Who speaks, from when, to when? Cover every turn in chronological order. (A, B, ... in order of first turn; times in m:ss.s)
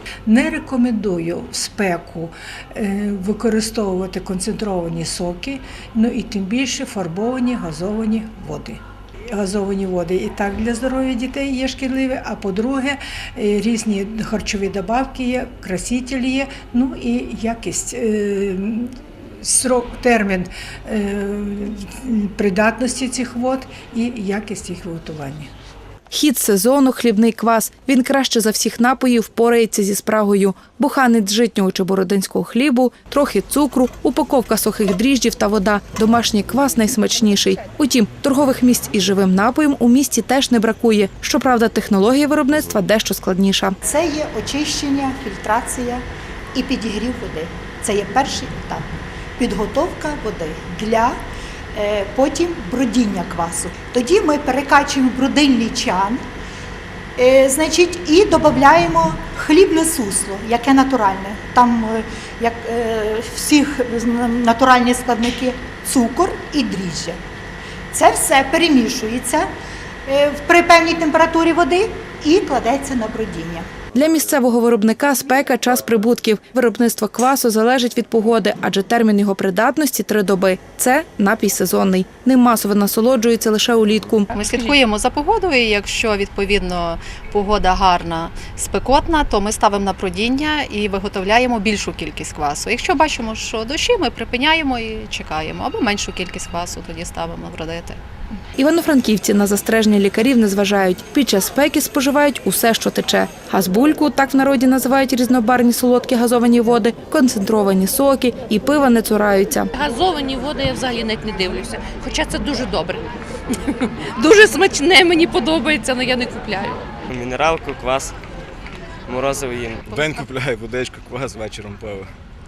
0:00.3-0:25.5 A
0:26.1-0:43.8 B
0:43.8-0:46.0 C
0:46.5-0:51.2 C
0:51.7-0:56.2 C
0:57.2-1:07.2 C
1:07.9-1:09.5 C
1:10.1-1:13.7 C
1:13.9-1:24.3 B
1:24.3-1:38.0 D
1:24.4-1:24.6 E
1:38.6-1:49.7 B
1:49.7-1:56.9 E
1:57.1-1:58.2 F
1:59.1-1:59.9 F
1:59.9-2:02.1 G